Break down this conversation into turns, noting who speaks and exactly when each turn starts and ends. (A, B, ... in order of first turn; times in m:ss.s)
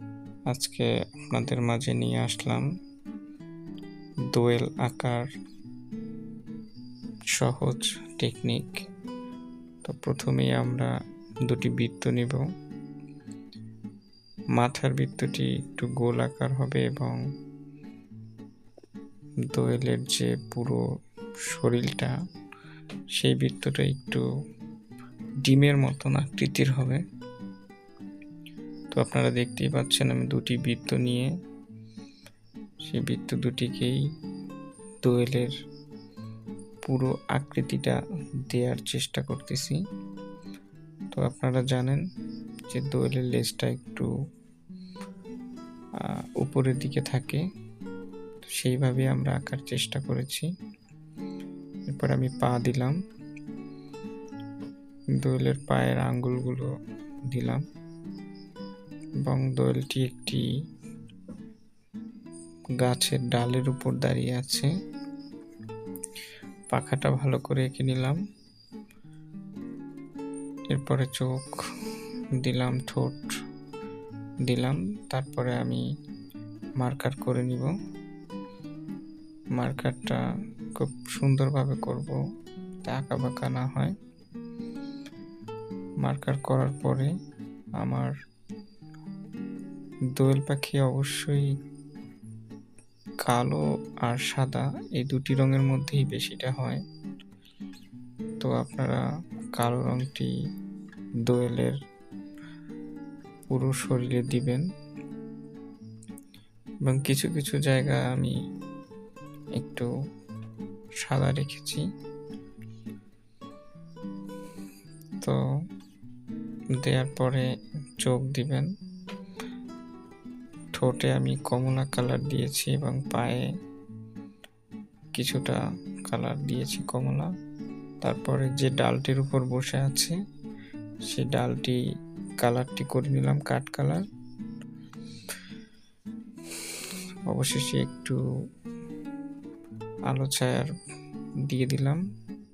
0:00.5-0:02.7 A
0:04.3-0:05.3 A
0:07.3-0:08.8 A
0:09.8-0:12.5 A
0:14.5-0:17.2 A
0:19.4-0:20.8 A
0:21.4-0:22.2 A
0:23.1-0:24.2 A
0:25.4-0:27.0 A
0:28.9-0:31.3 A
0:32.8-0:34.0 A
0:35.0-0:35.5 A
0:36.8-0:39.8 A
0:41.1-0:42.0 A
0:42.7-0:44.1 A
0:46.0-0:47.4 A
0:48.5-0:50.5 A
0:51.9-0:53.0 A
0:55.2-0:56.7 A
0:57.2-0:57.6 A
0:59.2-1:00.5 A
1:02.8-1:04.7 A
1:06.7-1:08.2 A
1:10.7-1:11.7 A
1:12.4-1:13.3 A
1:14.4-1:15.8 A
1:16.8-1:17.8 A
1:19.5-1:20.2 A
1:20.7-1:22.2 A
1:22.8-1:24.0 A
1:26.0-1:27.1 A
1:27.8-1:28.1 A
1:30.1-1:31.6 A
1:33.2-1:36.8 A
1:38.4-1:40.3 A
1:41.2-1:41.8 A
1:43.5-1:44.6 A
1:46.8-1:48.4 A
1:49.6-1:49.9 A
1:51.0-1:51.9 A
1:56.8-1:58.7 A
2:00.7-2:03.4 A
2:05.1-2:07.3 A
2:08.0-2:10.2 A
2:11.0-2:11.8 A
2:12.4-2:14.0 A
2:17.3-2:18.2 A
2:20.1-2:20.7 A
2:21.4-2:22.0 A